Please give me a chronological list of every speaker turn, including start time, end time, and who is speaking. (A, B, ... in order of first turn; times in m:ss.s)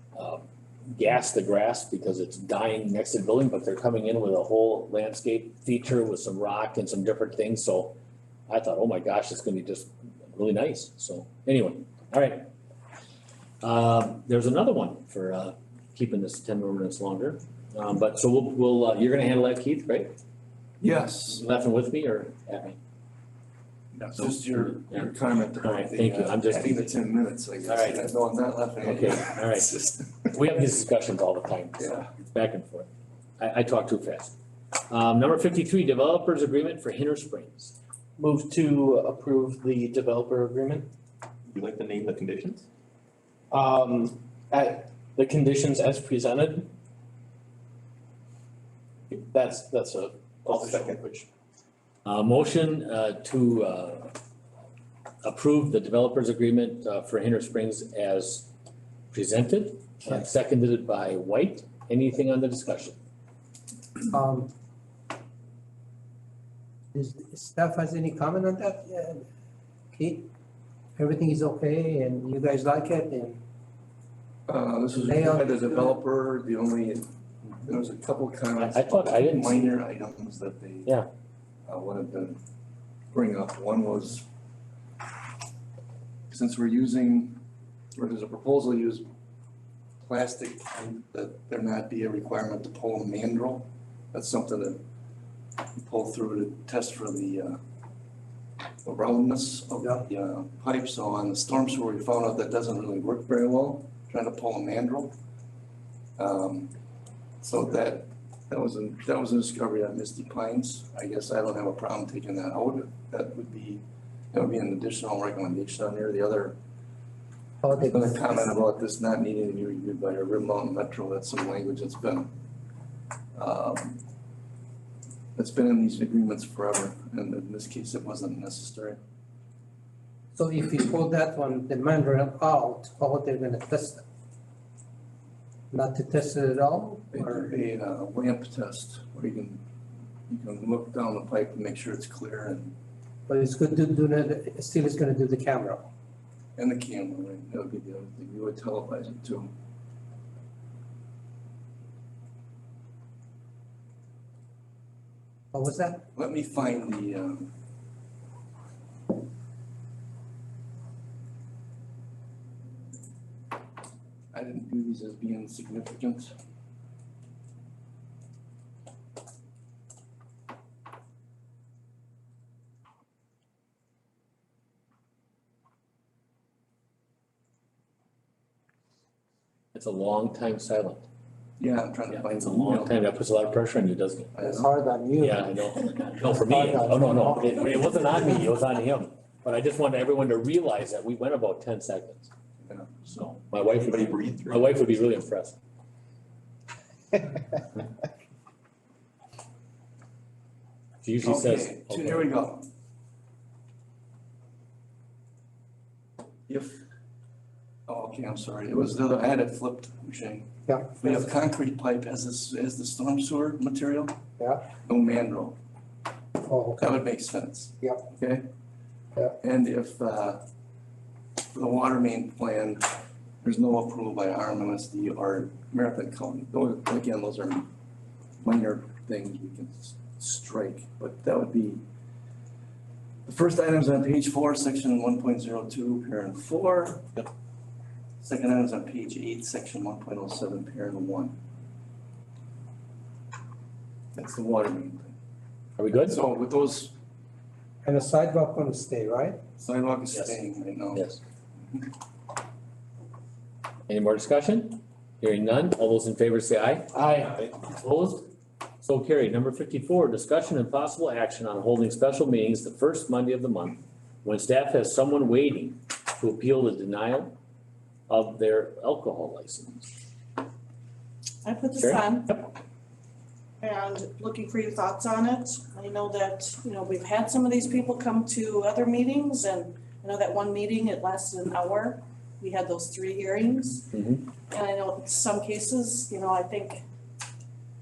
0:00.2-0:08.0 A
0:08.5-0:12.5 A
0:13.6-0:20.1 A
0:20.8-0:21.4 B
0:21.3-0:22.8 A
0:24.0-0:30.1 B
0:24.2-0:25.1 A
0:25.6-0:26.9 A
0:27.6-0:28.0 A
0:28.8-0:32.9 A
0:31.8-0:32.1 B
0:33.4-0:34.4 A
0:34.9-0:37.8 A
0:38.2-0:40.9 C
0:41.5-0:42.7 D
0:43.5-0:46.7 C
0:49.1-0:51.2 C
0:49.4-0:51.1 D
0:52.0-0:54.1 A
0:55.2-0:58.5 A
0:59.1-1:03.0 A
1:04.1-1:04.5 E
1:06.9-1:09.2 E
1:09.9-1:10.3 E
1:11.0-1:13.4 E
1:14.5-1:17.1 B
1:15.0-1:16.0 E
1:17.6-1:20.9 B
1:18.6-1:19.7 A
1:21.7-1:22.4 B
1:23.1-1:24.2 B
1:26.3-1:27.4 B
1:28.0-1:29.1 B
1:30.0-1:34.8 B
1:35.8-1:37.6 B
1:38.8-1:45.2 B
1:46.2-1:46.7 B
1:47.4-1:56.6 B
1:57.6-1:58.4 E
1:57.9-2:02.3 B
2:03.4-2:04.0 B
2:05.4-2:09.0 B
2:10.4-2:14.0 E
2:15.7-2:17.5 E
2:17.1-2:19.6 B
2:20.3-2:22.7 B
2:23.3-2:25.9 E
2:26.6-2:29.5 B
2:35.5-2:36.1 E
2:36.2-2:37.5 B
2:44.3-2:46.3 B
2:59.7-3:01.1 A
3:01.6-3:03.0 B
3:02.1-3:04.3 A
3:04.3-3:04.7 B
3:04.4-3:05.5 E
3:05.2-3:12.3 A
3:06.2-3:08.2 E
3:12.7-3:13.1 B
3:13.1-3:15.6 A
3:13.8-3:14.8 D
3:21.0-3:22.3 A
3:21.2-3:22.7 B
3:26.5-3:26.8 B
3:27.9-3:34.2 B
3:30.7-3:31.2 E
3:34.4-3:34.6 E
3:34.8-3:35.6 B
3:36.4-3:37.0 E
3:36.8-3:38.5 B
3:39.4-3:40.4 B
3:41.5-3:47.7 B
3:48.4-3:51.8 B
3:53.3-3:57.1 B
3:58.2-4:01.4 B
4:04.1-4:05.1 B
4:05.8-4:06.2 A
4:06.1-4:06.9 B
4:07.8-4:09.4 E
4:09.6-4:11.0 B
4:10.9-4:11.2 A
4:13.9-4:17.0 A
4:17.5-4:18.3 A
4:18.8-4:27.4 A
4:28.1-4:29.9 A
4:31.4-4:32.4 F
4:31.8-4:32.4 A
4:33.6-4:43.9 F
4:43.9-4:44.2 A
4:44.5-4:46.8 F